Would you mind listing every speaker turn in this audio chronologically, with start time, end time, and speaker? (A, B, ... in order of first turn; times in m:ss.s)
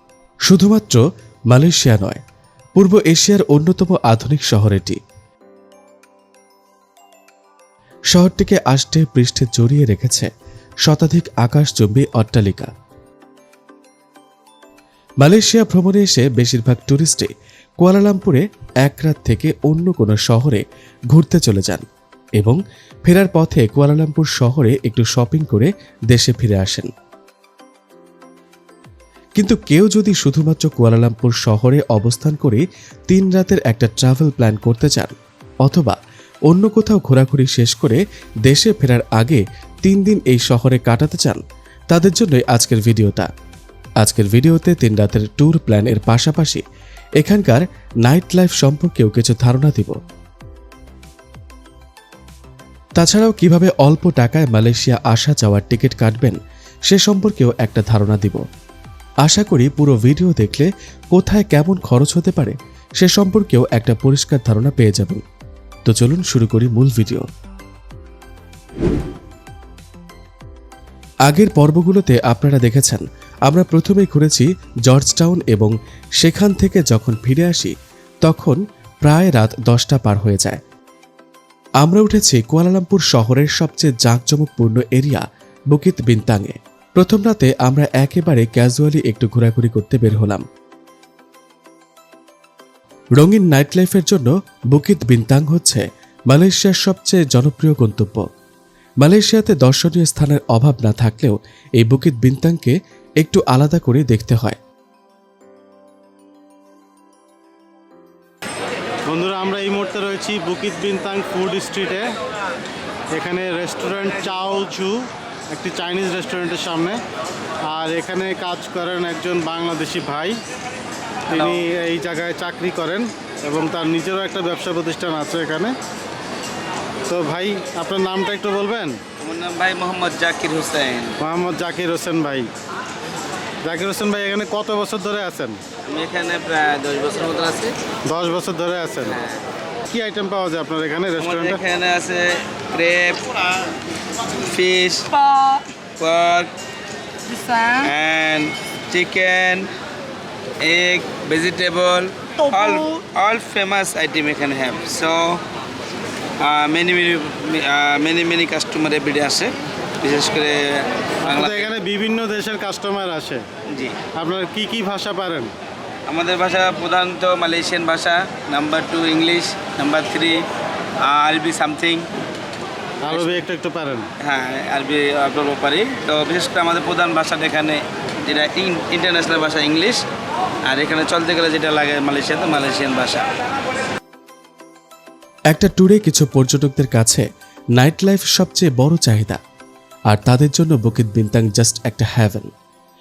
0:00.5-0:02.2 A
0:02.8-0:05.0 A
0:08.1-0:10.3 A
0:10.8-0:12.7 A
0:15.2-0:21.8 A
0:22.4-0:26.9 A
0:29.4-0:36.0 A
0:36.5-0:43.3 A
0:44.0-0:46.6 A
0:47.2-0:50.0 A
0:53.0-0:58.4 A
0:59.2-1:05.2 A
1:05.8-1:07.3 A
1:11.3-1:20.6 A
1:21.8-1:30.4 A
1:33.2-1:38.3 A
1:39.0-1:44.6 A
1:49.1-1:52.1 B
1:53.1-1:57.0 B
1:57.7-2:00.4 B
2:01.3-2:05.7 B
2:01.3-2:01.6 C
2:07.1-2:09.0 B
2:09.2-2:11.2 C
2:11.2-2:12.5 B
2:13.6-2:15.6 B
2:15.8-2:17.7 C
2:18.1-2:19.2 B
2:19.0-2:19.4 C
2:19.9-2:21.6 B
2:21.2-2:23.6 C
2:24.4-2:26.5 C
2:27.6-2:29.7 C
2:30.6-2:35.4 C
2:36.4-2:41.7 C
2:41.2-2:43.4 B
2:43.7-2:44.0 C
2:44.1-2:45.5 B
2:46.1-2:50.4 C
2:51.0-2:52.1 C
2:53.0-2:54.1 B
2:53.1-2:53.4 C
2:54.2-3:00.0 C
3:00.7-3:03.3 C
3:05.5-3:09.4 A
3:10.1-3:12.5 A